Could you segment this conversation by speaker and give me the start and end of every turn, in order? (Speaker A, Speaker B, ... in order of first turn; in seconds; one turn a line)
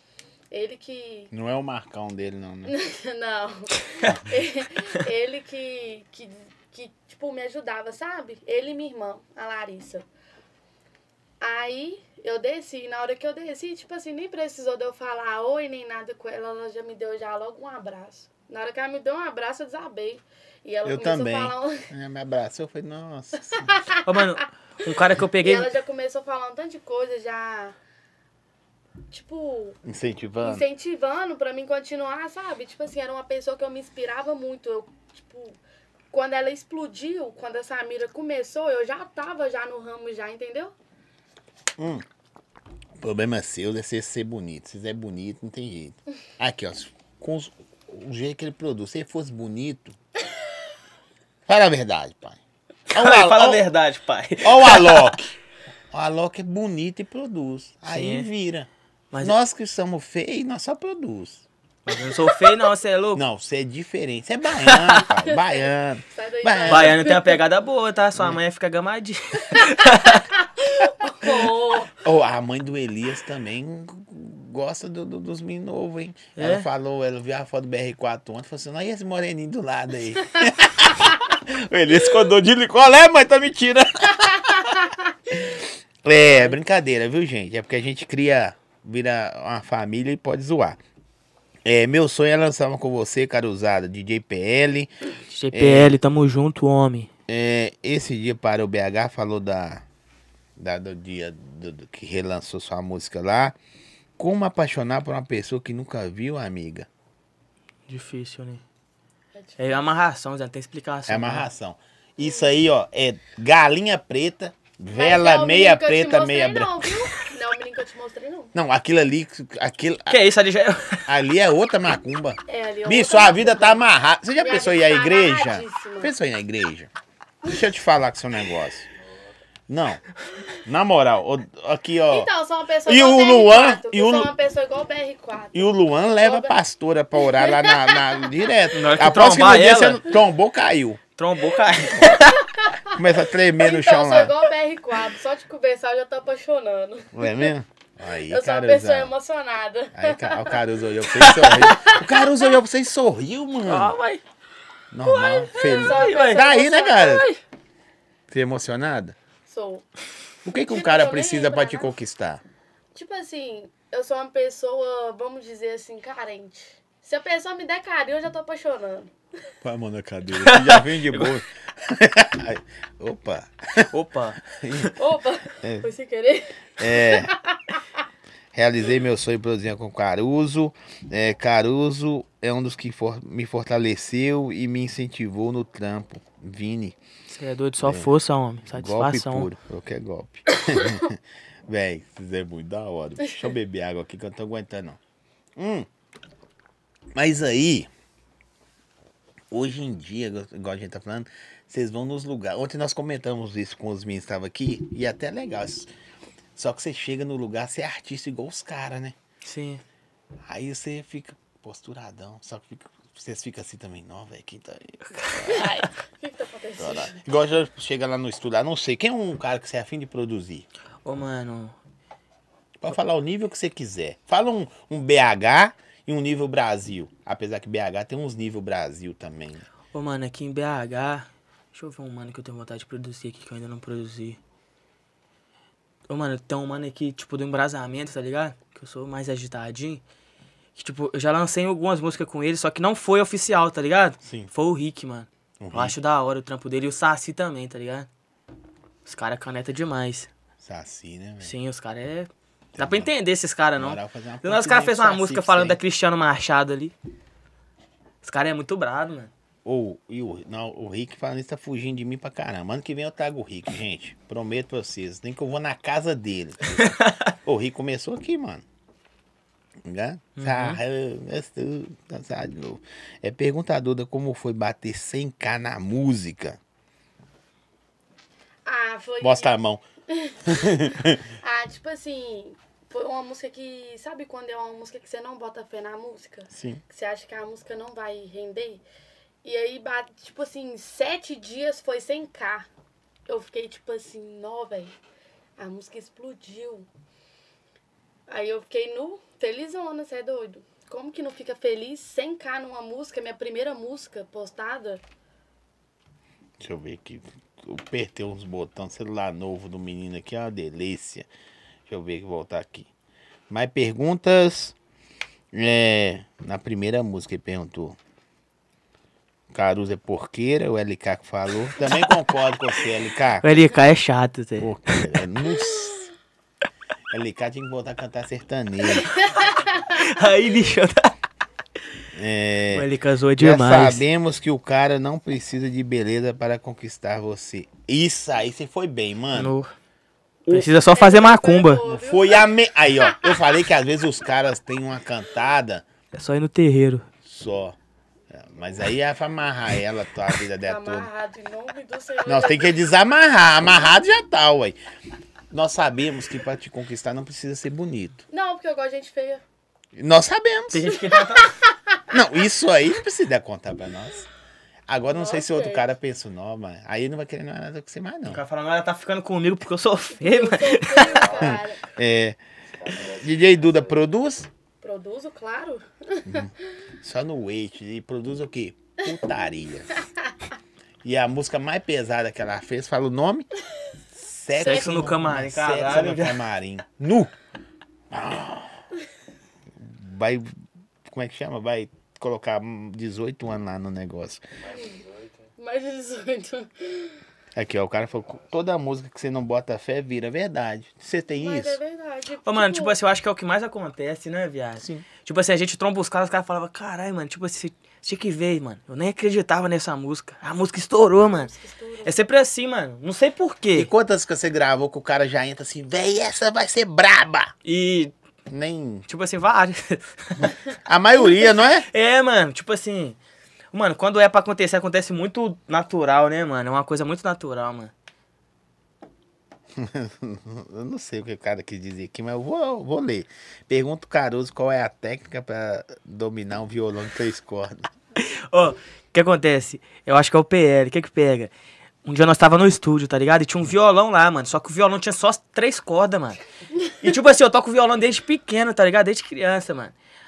Speaker A: 0.5-1.3
Speaker B: 1.3-2.7
Speaker A: 2.6-10.0
Speaker A: 11.4-21.9
Speaker B: 20.8-23.6
Speaker A: 23.5-24.3
Speaker C: 24.0-25.7
Speaker A: 25.4-27.7
Speaker A: 29.1-29.8
Speaker B: 29.8-30.6
Speaker A: 30.4-35.6
Speaker A: 36.1-40.7
Speaker B: 41.8-42.0
Speaker B: 43.0-50.0
Speaker B: 51.5-52.4
Speaker B: 52.9-53.7
Speaker C: 52.9-55.1
Speaker B: 54.4-55.3
Speaker B: 55.9-58.7
Speaker C: 57.9-58.3
Speaker B: 59.2-61.4
Speaker C: 61.9-63.2
Speaker B: 63.1-67.0
Speaker C: 64.6-65.0
Speaker A: 65.1-67.4
Speaker C: 66.7-70.2
Speaker A: 69.5-71.9
Speaker C: 71.2-71.5
Speaker B: 71.9-90.8
Speaker C: 76.3-76.7
Speaker B: 91.6-94.9
Speaker C: 95.3-97.1
Speaker B: 95.5-96.0
Speaker B: 97.3-99.8
Speaker B: 100.6-103.5
Speaker B: 104.2-106.9
Speaker C: 107.9-108.6
Speaker A: 109.3-109.8
Speaker C: 109.6-111.5
Speaker B: 111.1-116.9
Speaker A: 114.9-118.5
Speaker B: 118.5-120.2
Speaker C: 120.1-121.1
Speaker B: 121.1-126.9
Speaker A: 122.5-123.8
Speaker A: 124.4-126.1
Speaker B: 127.4-128.8
Speaker B: 129.7-130.0
Speaker B: 130.6-132.3
Speaker A: 132.1-136.6
Speaker B: 132.8-134.3
Speaker B: 135.5-141.0
Speaker A: 137.2-138.3
Speaker C: 138.7-140.0
Speaker C: 141.2-142.4
Speaker A: 142.0-142.9
Speaker B: 142.9-144.3
Speaker A: 143.6-147.5
Speaker B: 147.1-149.1
Speaker A: 148.3-150.6
Speaker B: 149.9-153.9
Speaker C: 151.1-152.0
Speaker C: 153.7-154.2
Speaker B: 154.9-157.2
Speaker A: 155.1-157.3
Speaker C: 155.6-156.4
Speaker B: 158.3-159.2
Speaker A: 159.5-159.9
Speaker B: 160.4-162.4
Speaker A: 160.5-161.9
Speaker A: 162.9-169.1
Speaker B: 169.6-173.9
Speaker C: 170.4-171.3
Speaker C: 173.9-174.9
Speaker B: 174.4-174.9
Speaker A: 174.9-177.8
Speaker B: 175.6-175.9
Speaker B: 176.8-177.3
Speaker B: 178.5-186.9
Speaker C: 187.3-189.5
Speaker B: 187.8-188.1
Speaker B: 188.7-195.0
Speaker B: 195.6-195.9
Speaker B: 197.1-197.9
Speaker B: 199.5-205.9
Speaker B: 206.6-209.1
Speaker C: 209.4-209.8
Speaker B: 210.5-215.9
Speaker C: 215.2-215.7
Speaker A: 215.5-217.2
Speaker B: 216.8-220.7
Speaker C: 221.0-221.7
Speaker B: 222.8-229.7
Speaker C: 229.9-234.4
Speaker C: 236.1-240.0
Speaker C: 240.8-248.1
Speaker B: 244.2-244.5
Speaker B: 245.6-245.9
Speaker C: 249.1-250.3
Speaker B: 250.6-251.5
Speaker C: 251.4-256.9
Speaker B: 252.8-253.1
Speaker B: 253.8-255.8
Speaker C: 258.2-259.3
Speaker B: 259.6-268.6
Speaker C: 266.8-267.3
Speaker B: 269.8-276.6
Speaker C: 270.4-270.8
Speaker A: 278.6-279.5
Speaker B: 279.2-279.8
Speaker A: 280.1-288.8
Speaker B: 280.4-281.2
Speaker B: 286.5-286.8
Speaker A: 289.4-292.7
Speaker A: 293.3-294.9
Speaker A: 295.6-296.9
Speaker A: 298.3-305.0
Speaker B: 306.6-311.3
Speaker B: 311.9-312.9
Speaker B: 313.5-314.8
Speaker B: 315.5-318.0
Speaker B: 319.5-323.5
Speaker C: 321.8-322.2
Speaker C: 323.4-325.2
Speaker B: 324.6-326.1
Speaker B: 327.1-329.1
Speaker A: 328.9-330.0
Speaker C: 329.9-331.1
Speaker B: 332.1-339.5
Speaker C: 332.7-334.0
Speaker C: 339.3-339.7
Speaker C: 340.5-341.8
Speaker A: 340.9-342.5
Speaker B: 341.8-345.8
Speaker A: 343.0-343.3
Speaker C: 346.1-347.1
Speaker B: 347.2-347.8
Speaker B: 348.3-351.1
Speaker A: 350.6-352.8
Speaker B: 352.2-354.8
Speaker B: 355.5-358.2
Speaker A: 358.3-359.4
Speaker B: 359.9-361.0
Speaker C: 360.7-361.5
Speaker A: 361.4-362.0
Speaker B: 362.1-364.3
Speaker B: 364.9-368.4
Speaker A: 365.1-365.9
Speaker C: 368.2-371.2
Speaker A: 370.2-371.8
Speaker D: 371.1-371.6
Speaker B: 371.4-372.4
Speaker D: 372.7-374.0
Speaker B: 373.1-374.5
Speaker A: 374.8-376.5
Speaker B: 376.2-379.9
Speaker B: 381.0-383.5
Speaker B: 384.1-387.3
Speaker C: 384.6-386.4
Speaker A: 384.6-385.0
Speaker B: 388.1-388.8
Speaker B: 389.8-390.5
Speaker B: 391.1-394.4
Speaker D: 394.6-395.5
Speaker A: 394.7-395.0
Speaker A: 395.6-397.2
Speaker B: 397.5-401.8
Speaker A: 401.4-403.0
Speaker C: 402.4-411.5
Speaker B: 404.8-405.0
Speaker A: 411.3-412.2
Speaker C: 412.0-413.9
Speaker B: 413.7-417.5
Speaker C: 417.6-418.1
Speaker B: 418.5-419.1
Speaker C: 419.1-420.5
Speaker B: 420.8-421.9
Speaker C: 421.9-423.2
Speaker C: 423.7-427.9
Speaker B: 429.7-437.9
Speaker C: 438.2-441.5
Speaker C: 442.0-446.4
Speaker C: 447.0-449.9